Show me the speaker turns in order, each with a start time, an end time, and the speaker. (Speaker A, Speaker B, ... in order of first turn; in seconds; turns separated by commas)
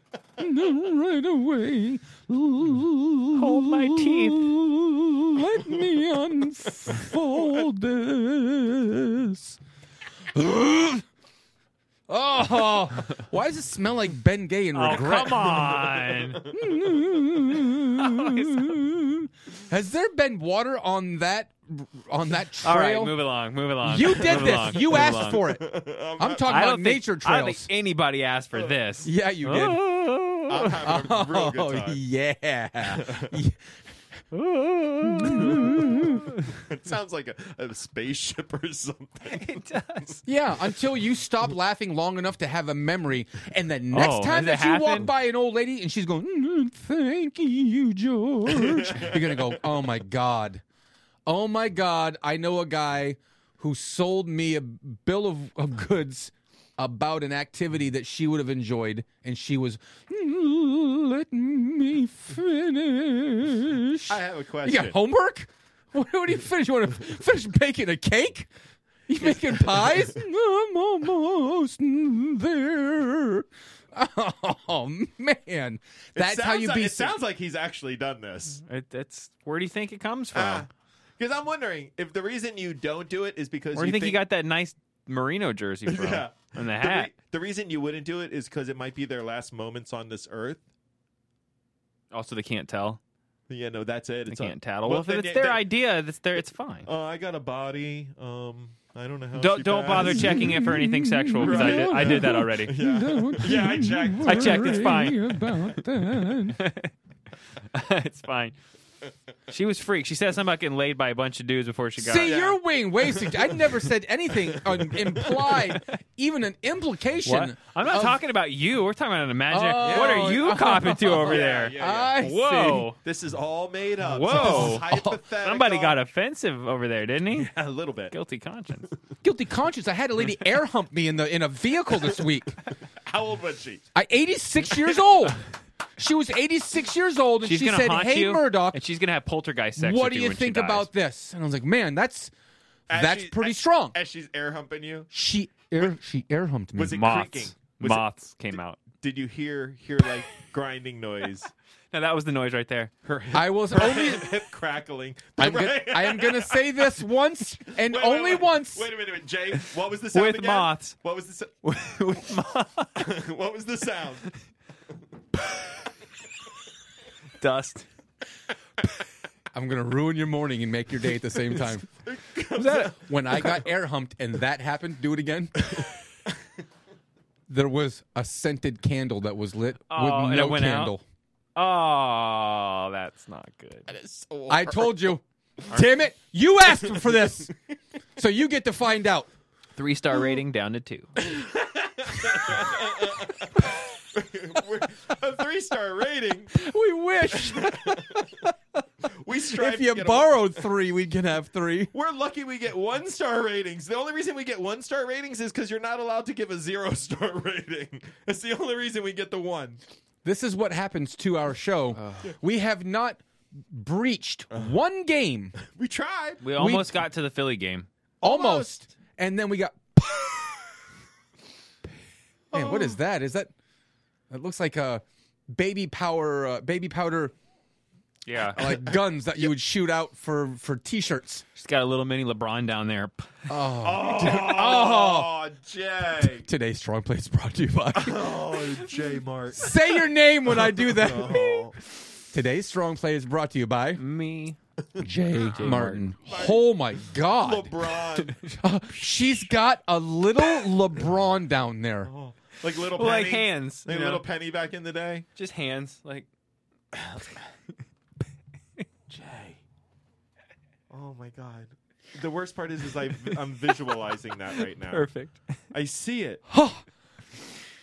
Speaker A: 0.4-9.6, Speaker B: 3.3-4.5, Speaker A: 10.3-11.0, Speaker A: 12.1-15.8, Speaker B: 14.7-16.5, Speaker C: 15.7-16.2, Speaker A: 16.4-23.1, Speaker B: 17.7-18.8, Speaker B: 22.6-25.5, Speaker A: 23.8-27.7, Speaker C: 24.4-26.5, Speaker B: 26.4-30.7, Speaker A: 29.0-29.9, Speaker C: 30.5-32.0, Speaker A: 30.8-33.7, Speaker C: 32.9-33.4, Speaker B: 34.3-36.4, Speaker A: 35.0-36.3, Speaker C: 36.0-40.2, Speaker B: 39.3-40.2, Speaker A: 40.3-50.6, Speaker B: 43.9-45.1, Speaker C: 48.5-49.6, Speaker A: 51.3-68.5, Speaker C: 64.1-65.0, Speaker A: 69.1-77.2, Speaker C: 69.2-70.0, Speaker C: 76.2-78.6, Speaker B: 78.7-80.7, Speaker C: 80.3-84.2, Speaker B: 83.8-87.1, Speaker C: 85.9-90.6, Speaker B: 92.1-93.0, Speaker C: 93.5-95.6, Speaker B: 94.3-96.9, Speaker C: 96.8-100.5, Speaker B: 99.3-102.8, Speaker A: 99.9-106.6, Speaker C: 101.4-105.0, Speaker B: 104.2-105.3, Speaker B: 106.5-106.9, Speaker B: 107.7-108.5, Speaker B: 109.5-112.3, Speaker A: 112.0-118.2, Speaker C: 112.2-113.6, Speaker C: 114.5-115.6, Speaker B: 117.2-123.0, Speaker A: 119.5-122.9, Speaker C: 119.8-120.4, Speaker C: 121.2-122.2, Speaker C: 123.0-126.0, Speaker B: 124.0-127.5, Speaker A: 124.3-125.0, Speaker C: 127.3-128.1, Speaker B: 128.1-128.9, Speaker A: 129.2-132.6, Speaker C: 133.0-133.8, Speaker A: 133.9-135.4, Speaker A: 136.0-138.8, Speaker B: 137.4-140.9, Speaker A: 139.8-142.3, Speaker C: 142.9-145.1, Speaker A: 142.9-144.0, Speaker A: 145.1-147.1, Speaker C: 146.8-148.1, Speaker B: 146.9-148.8, Speaker C: 148.8-151.5, Speaker B: 151.9-152.9, Speaker C: 153.1-156.9, Speaker A: 153.3-154.3, Speaker A: 155.4-158.9, Speaker C: 157.8-161.5, Speaker B: 160.1-161.0, Speaker B: 161.6-163.1, Speaker C: 163.0-164.3, Speaker B: 167.4-167.9, Speaker A: 169.5-171.9, Speaker C: 171.5-173.6, Speaker A: 172.5-175.8, Speaker A: 177.5-181.0, Speaker B: 179.9-180.9, Speaker B: 181.6-183.9, Speaker C: 183.9-185.1, Speaker A: 184.5-187.5, Speaker C: 186.8-187.5, Speaker A: 188.2-189.3, Speaker B: 189.8-191.2, Speaker C: 191.2-196.6, Speaker A: 196.5-198.5, Speaker C: 197.4-198.2, Speaker C: 199.1-200.5, Speaker A: 199.5-201.9, Speaker C: 201.9-209.8, Speaker A: 210.2-215.6, Speaker B: 212.0-212.3, Speaker C: 215.6-216.4, Speaker B: 216.4-217.9, Speaker A: 216.6-217.0, Speaker C: 218.2-218.9, Speaker A: 218.2-220.5, Speaker C: 222.5-222.9, Speaker A: 222.5-223.5, Speaker A: 224.3-227.3, Speaker B: 228.3-228.7, Speaker A: 228.4-231.4, Speaker B: 231.6-233.5, Speaker A: 233.5-235.3, Speaker C: 233.8-236.5, Speaker A: 236.2-238.7, Speaker C: 237.9-239.8, Speaker A: 239.6-241.7, Speaker C: 240.5-241.8, Speaker A: 242.3-244.0, Speaker B: 244.0-244.6, Speaker A: 245.0-247.8, Speaker B: 245.4-246.1, Speaker C: 246.3-246.6, Speaker C: 247.4-248.4, Speaker A: 248.6-252.1, Speaker C: 252.0-255.3, Speaker B: 253.0-254.2, Speaker B: 255.4-256.3, Speaker C: 256.9-257.2, Speaker C: 259.1-259.6, Speaker C: 260.9-265.1, Speaker B: 264.8-265.4, Speaker C: 265.7-266.4, Speaker A: 266.5-266.9